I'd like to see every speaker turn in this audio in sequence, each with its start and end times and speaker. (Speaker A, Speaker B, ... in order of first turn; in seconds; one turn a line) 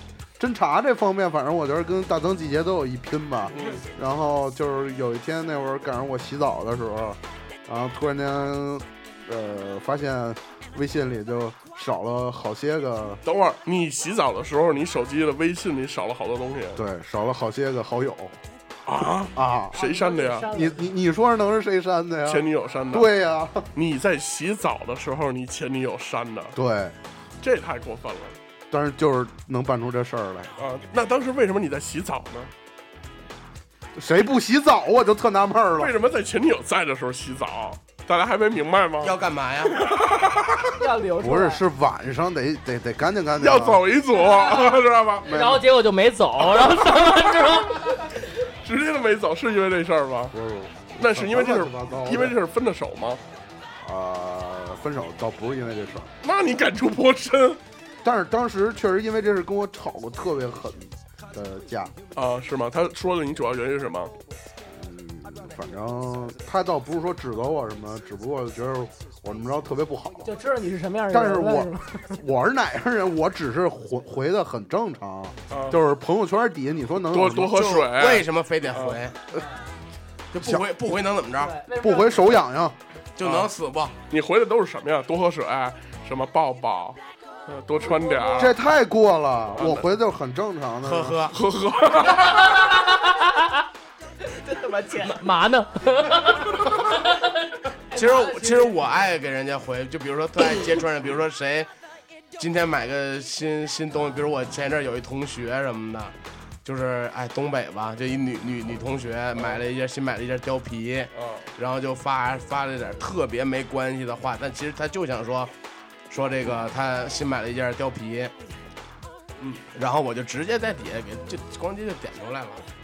Speaker A: 0.4-13.2
Speaker B: 3.5-3.9
Speaker B: 13.2-16.8
Speaker A: 16.8-18.4
Speaker B: 18.9-20.5
Speaker A: 19.4-19.8
Speaker C: 19.7-20.9
Speaker A: 20.5-23.7
Speaker B: 22.3-23.1
Speaker B: 23.8-26.6
Speaker A: 26.6-27.0
Speaker B: 27.4-28.4
Speaker A: 28.7-30.6
Speaker B: 30.6-32.5
Speaker A: 34.0-36.0
Speaker B: 35.8-40.8
Speaker D: 39.0-39.9
Speaker C: 40.8-41.6
Speaker A: 41.2-43.9
Speaker B: 43.4-45.3
Speaker A: 45.2-45.6
Speaker E: 45.2-48.0
Speaker B: 46.6-47.2
Speaker B: 48.5-50.4
Speaker A: 50.3-52.4
Speaker B: 51.0-53.2
Speaker A: 53.8-56.1
Speaker B: 56.2-57.6
Speaker A: 58.0-61.9
Speaker B: 62.1-64.1
Speaker A: 64.7-70.3
Speaker C: 70.2-72.2
Speaker A: 71.1-77.6
Speaker B: 75.5-75.8
Speaker B: 77.1-79.0
Speaker D: 77.5-79.2
Speaker C: 79.3-79.6
Speaker D: 80.3-81.6
Speaker A: 80.4-80.7
Speaker C: 81.4-82.4
Speaker A: 81.8-82.8
Speaker D: 83.2-84.0
Speaker B: 83.2-83.5
Speaker B: 84.1-88.5
Speaker C: 87.8-88.5
Speaker A: 88.3-91.2
Speaker B: 89.6-89.9
Speaker D: 90.8-91.4
Speaker B: 91.3-92.8
Speaker E: 92.5-93.6
Speaker C: 94.3-95.3
Speaker E: 95.0-97.3
Speaker C: 97.9-98.8
Speaker D: 97.9-101.7
Speaker D: 102.4-115.5
Speaker B: 111.2-111.5
Speaker D: 116.1-118.3
Speaker D: 119.7-122.7